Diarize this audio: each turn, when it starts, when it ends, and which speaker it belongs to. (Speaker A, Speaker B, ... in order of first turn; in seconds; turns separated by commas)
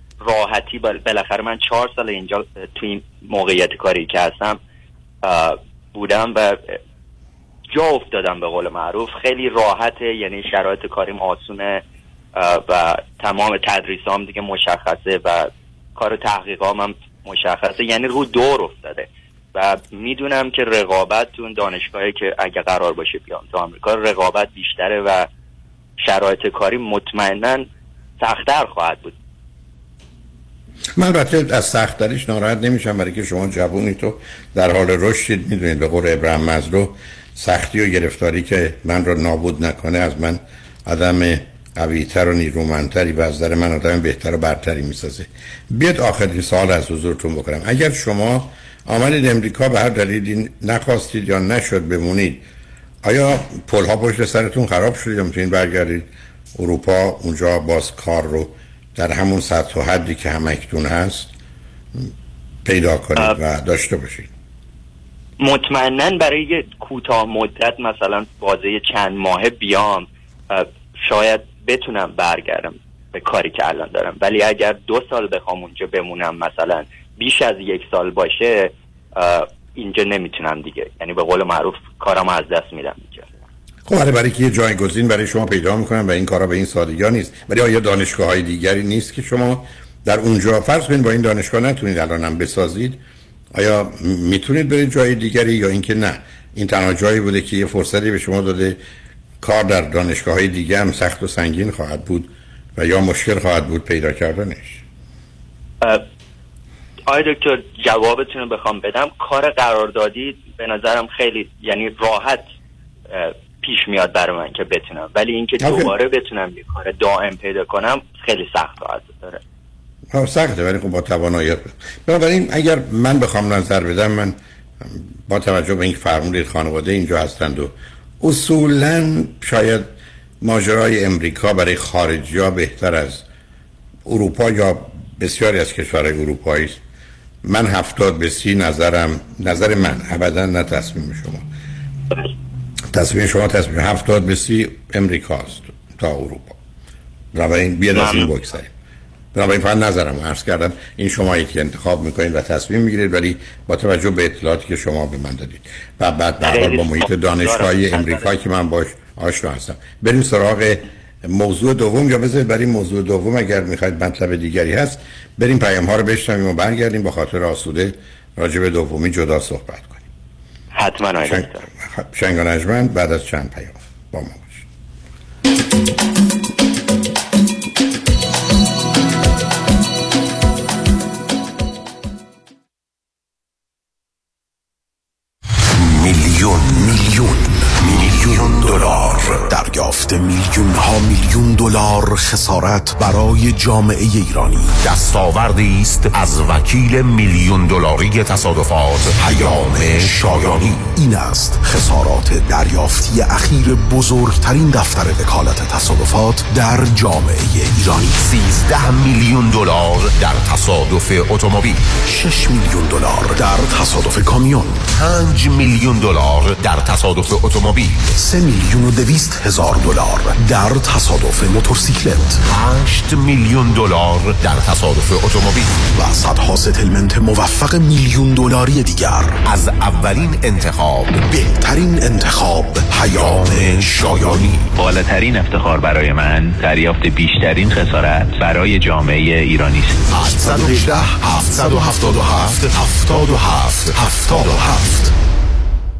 Speaker A: 0.2-4.6, Speaker A: 5.2-6.8, Speaker A: 7.7-11.8, Speaker A: 12.3-25.3, Speaker A: 26.0-27.6, Speaker A: 28.2-29.1, Speaker B: 31.0-52.4, Speaker B: 53.0-61.3, Speaker B: 62.6-64.3, Speaker A: 65.4-83.3, Speaker B: 83.9-93.0, Speaker B: 93.5-98.8, Speaker B: 99.4-104.8, Speaker A: 107.1-112.5, Speaker A: 113.1-119.4, Speaker B: 115.6-115.9, Speaker B: 120.1-129.9, Speaker B: 130.4-133.2, Speaker B: 134.1-136.8, Speaker B: 137.4-141.4, Speaker B: 142.9-146.6, Speaker B: 147.3-148.7, Speaker A: 147.9-148.3, Speaker B: 149.3-170.1, Speaker A: 156.4-158.3, Speaker A: 170.7-171.6, Speaker B: 171.2-174.7, Speaker C: 185.7-194.8, Speaker D: 188.0-189.4, Speaker D: 194.8-200.9, Speaker C: 199.2-208.3, Speaker D: 208.3-211.9, Speaker C: 212.0-214.9, Speaker D: 214.9-218.1, Speaker C: 218.2-222.4, Speaker D: 222.5-225.8, Speaker C: 225.9-229.4, Speaker D: 229.4-231.2, Speaker C: 231.2-234.7, Speaker D: 233.1-234.4, Speaker E: 234.7-240.1, Speaker C: 240.1-245.1